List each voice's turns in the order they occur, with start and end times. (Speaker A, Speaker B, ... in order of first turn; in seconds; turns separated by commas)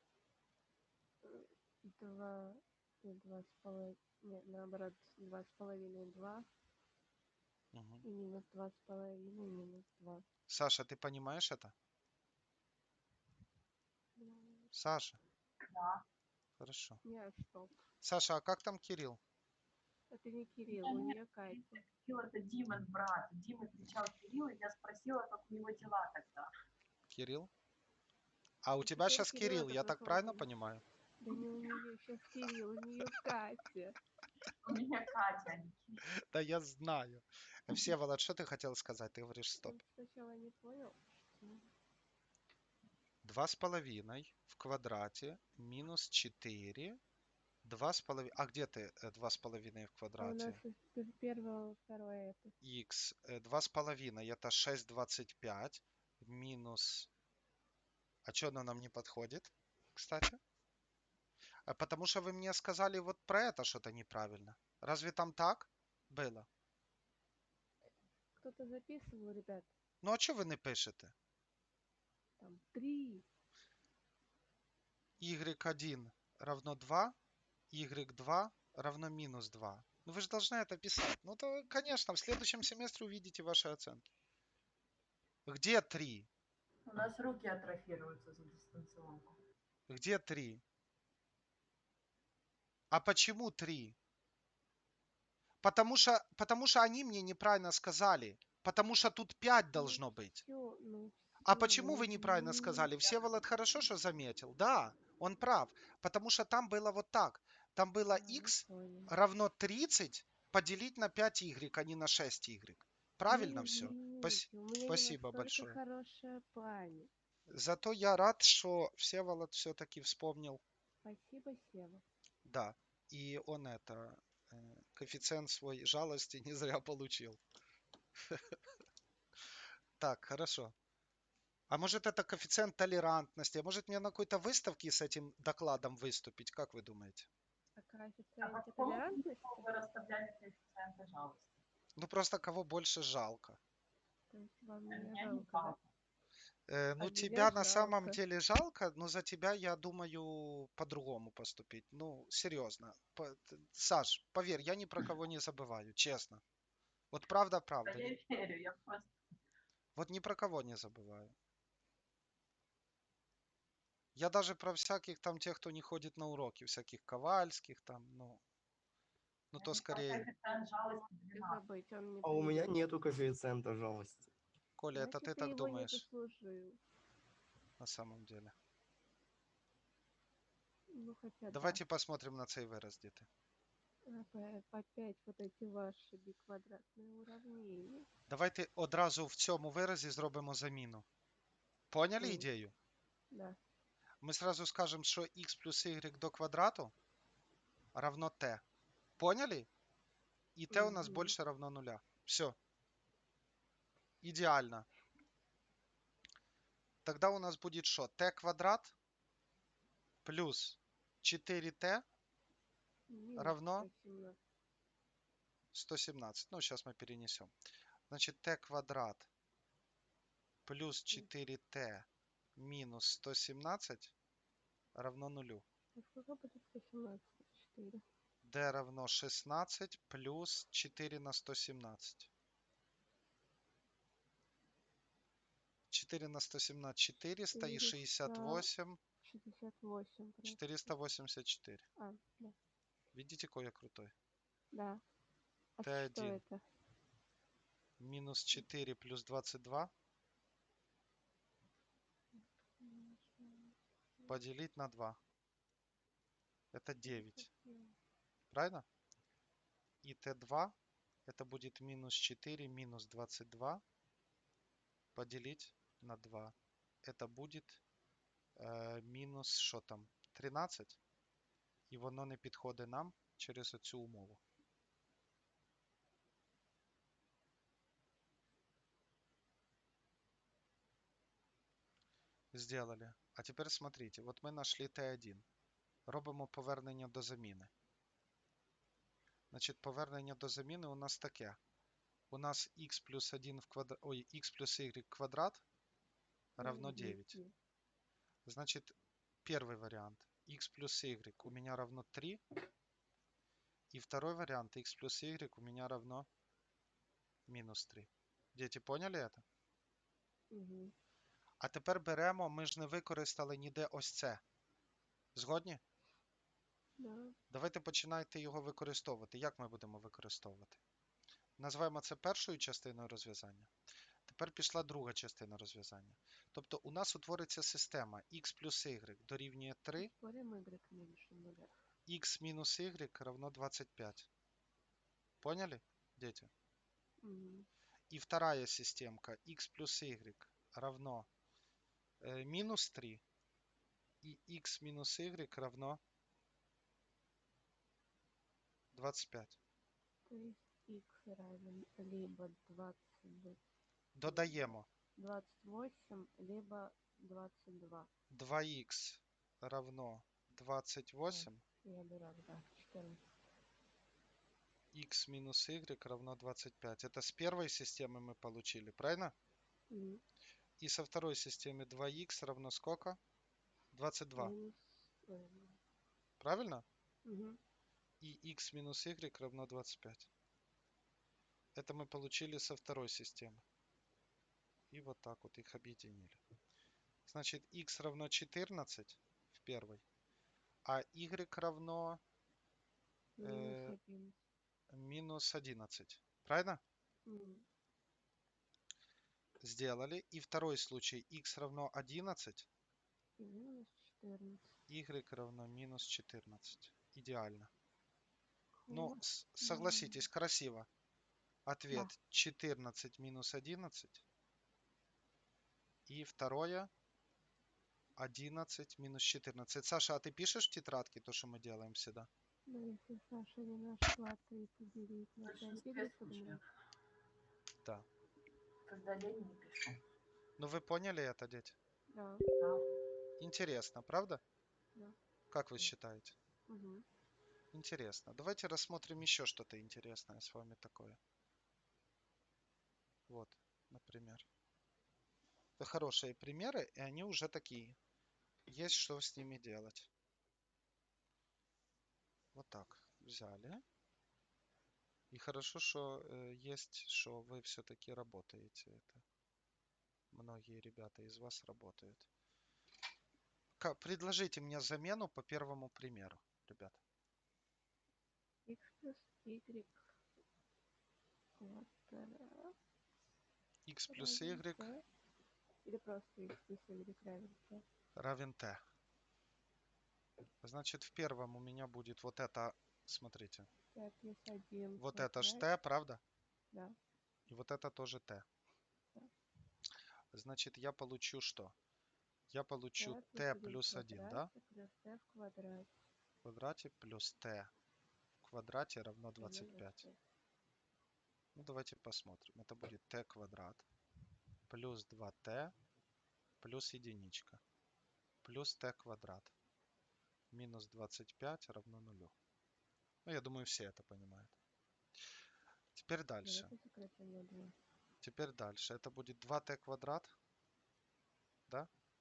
Speaker A: 1.2-6.5, Speaker B: 7.7-8.0, Speaker A: 8.0-10.2, Speaker B: 10.5-11.7, Speaker A: 14.2-14.7, Speaker B: 14.7-15.2, Speaker C: 15.6-16.0, Speaker B: 16.6-17.0, Speaker A: 17.0-17.8, Speaker B: 18.0-19.2, Speaker A: 20.1-21.8, Speaker C: 20.7-26.5, Speaker B: 27.1-27.5, Speaker B: 28.6-30.8, Speaker A: 28.8-30.5, Speaker A: 31.2-34.0, Speaker C: 34.6-36.0, Speaker B: 36.3-39.8, Speaker A: 39.6-41.7, Speaker B: 43.2-47.0, Speaker B: 47.6-50.6, Speaker A: 50.2-52.5, Speaker B: 52.6-57.1, Speaker B: 58.2-60.4, Speaker B: 61.7-66.5, Speaker A: 68.3-69.7, Speaker B: 70.0-71.1, Speaker A: 72.4-73.2, Speaker B: 75.2-77.1, Speaker B: 77.7-84.0, Speaker B: 85.5-86.3, Speaker C: 86.8-89.4, Speaker B: 89.9-90.6, Speaker B: 92.9-94.0, Speaker B: 95.6-100.4, Speaker A: 99.7-102.9, Speaker B: 101.4-115.8, Speaker A: 108.1-109.1, Speaker A: 113.3-117.1, Speaker B: 117.5-120.6, Speaker A: 121.0-122.0, Speaker B: 122.4-127.4, Speaker B: 128.3-128.6, Speaker B: 130.0-130.7, Speaker B: 131.7-137.3, Speaker A: 137.8-139.7, Speaker C: 138.4-141.5, Speaker B: 142.0-143.6, Speaker A: 144.3-145.7, Speaker C: 144.9-145.8, Speaker B: 146.7-156.4, Speaker A: 147.0-148.2, Speaker B: 157.1-158.1, Speaker C: 157.8-159.1, Speaker B: 159.9-161.3, Speaker B: 164.1-168.4, Speaker B: 169.5-170.3, Speaker C: 169.5-171.6, Speaker A: 171.3-172.7, Speaker D: 172.2-174.3, Speaker B: 174.8-176.1, Speaker A: 174.9-176.8, Speaker B: 177.8-178.5, Speaker A: 180.9-181.8, Speaker B: 181.5-183.3, Speaker A: 184.1-188.1, Speaker B: 188.3-191.1, Speaker B: 191.9-192.7, Speaker A: 192.2-192.5, Speaker A: 193.3-193.6, Speaker B: 194.2-196.9, Speaker B: 197.9-198.6, Speaker B: 199.2-199.7, Speaker B: 200.6-202.6, Speaker A: 200.7-201.3, Speaker B: 204.2-204.8, Speaker B: 207.0-208.9, Speaker B: 210.2-212.0, Speaker A: 213.1-214.4, Speaker B: 213.3-213.9, Speaker B: 215.7-217.5, Speaker B: 218.1-219.3, Speaker B: 220.7-224.1, Speaker B: 224.9-225.6, Speaker A: 225.9-228.0, Speaker B: 228.4-232.3, Speaker B: 235.9-239.0, Speaker A: 237.5-238.7, Speaker A: 239.2-240.6, Speaker B: 240.4-241.9, Speaker A: 242.0-242.6, Speaker B: 243.1-244.1, Speaker A: 244.7-245.0, Speaker A: 245.8-246.6, Speaker B: 245.8-246.4, Speaker B: 248.0-249.9, Speaker A: 252.3-254.4, Speaker B: 254.3-255.2, Speaker B: 256.7-257.5, Speaker A: 257.0-257.9, Speaker B: 258.5-258.8, Speaker B: 260.0-260.7, Speaker B: 261.3-263.8, Speaker B: 265.1-267.8, Speaker B: 268.6-271.0, Speaker B: 271.9-274.4, Speaker B: 282.5-285.4, Speaker B: 286.1-287.7, Speaker B: 289.5-291.6, Speaker B: 292.3-295.6, Speaker B: 296.6-297.4, Speaker A: 296.6-297.5, Speaker B: 298.4-298.9, Speaker B: 299.4-302.4, Speaker B: 303.9-306.3, Speaker B: 307.5-309.4, Speaker A: 310.5-310.9, Speaker B: 311.6-314.4, Speaker B: 315.3-315.8, Speaker A: 317.0-317.4, Speaker B: 317.5-320.8, Speaker B: 321.6-323.7, Speaker B: 324.2-330.1, Speaker A: 330.0-331.7, Speaker B: 332.1-334.3, Speaker B: 335.4-336.5, Speaker A: 337.2-337.7, Speaker B: 338.1-341.3, Speaker B: 342.2-343.2, Speaker B: 344.2-346.0, Speaker B: 348.9-349.6, Speaker A: 350.2-353.6, Speaker B: 354.1-354.9, Speaker A: 354.2-358.1, Speaker B: 358.3-361.6, Speaker A: 361.3-363.4, Speaker B: 364.9-369.3, Speaker A: 369.9-370.2, Speaker B: 370.8-373.2, Speaker B: 373.9-374.5, Speaker A: 374.4-375.8, Speaker B: 376.4-376.8, Speaker A: 377.2-377.6, Speaker B: 378.2-380.3, Speaker B: 381.7-383.6, Speaker B: 384.9-386.4, Speaker B: 387.2-390.0, Speaker B: 390.8-392.2, Speaker A: 393.4-394.4, Speaker B: 393.4-394.0, Speaker B: 394.9-396.8, Speaker A: 397.2-397.6, Speaker B: 399.6-402.7, Speaker A: 403.4-404.8, Speaker B: 404.9-407.7, Speaker A: 408.8-410.3, Speaker B: 408.9-410.9, Speaker B: 411.6-414.2, Speaker B: 416.1-416.9, Speaker B: 418.2-422.3, Speaker A: 422.6-426.6, Speaker C: 425.4-426.6, Speaker C: 428.9-430.0, Speaker B: 430.6-431.8, Speaker A: 432.1-432.5, Speaker C: 432.6-432.9, Speaker B: 433.4-434.4, Speaker B: 435.5-436.3, Speaker A: 436.7-437.0, Speaker B: 437.7-441.2, Speaker B: 443.3-444.4, Speaker B: 445.8-447.9, Speaker B: 448.7-450.1, Speaker B: 452.5-453.8, Speaker B: 455.3-459.2, Speaker B: 460.3-462.3, Speaker B: 463.8-467.0, Speaker A: 468.6-470.2, Speaker A: 471.6-472.7, Speaker B: 473.9-474.9, Speaker A: 474.1-475.0, Speaker A: 475.8-477.8, Speaker B: 478.1-478.8, Speaker B: 480.6-483.7, Speaker A: 483.9-485.7, Speaker B: 485.0-486.2, Speaker A: 486.7-486.9, Speaker B: 487.5-488.4, Speaker B: 490.3-491.7, Speaker B: 492.5-494.5, Speaker A: 493.0-495.9, Speaker B: 496.4-497.7, Speaker B: 498.4-500.1, Speaker A: 499.4-500.2, Speaker B: 501.5-503.9, Speaker B: 504.7-505.7, Speaker B: 506.6-507.6, Speaker B: 508.4-509.5, Speaker B: 510.5-512.3, Speaker B: 513.2-514.5, Speaker B: 515.9-516.7, Speaker A: 516.4-517.7, Speaker B: 518.2-520.3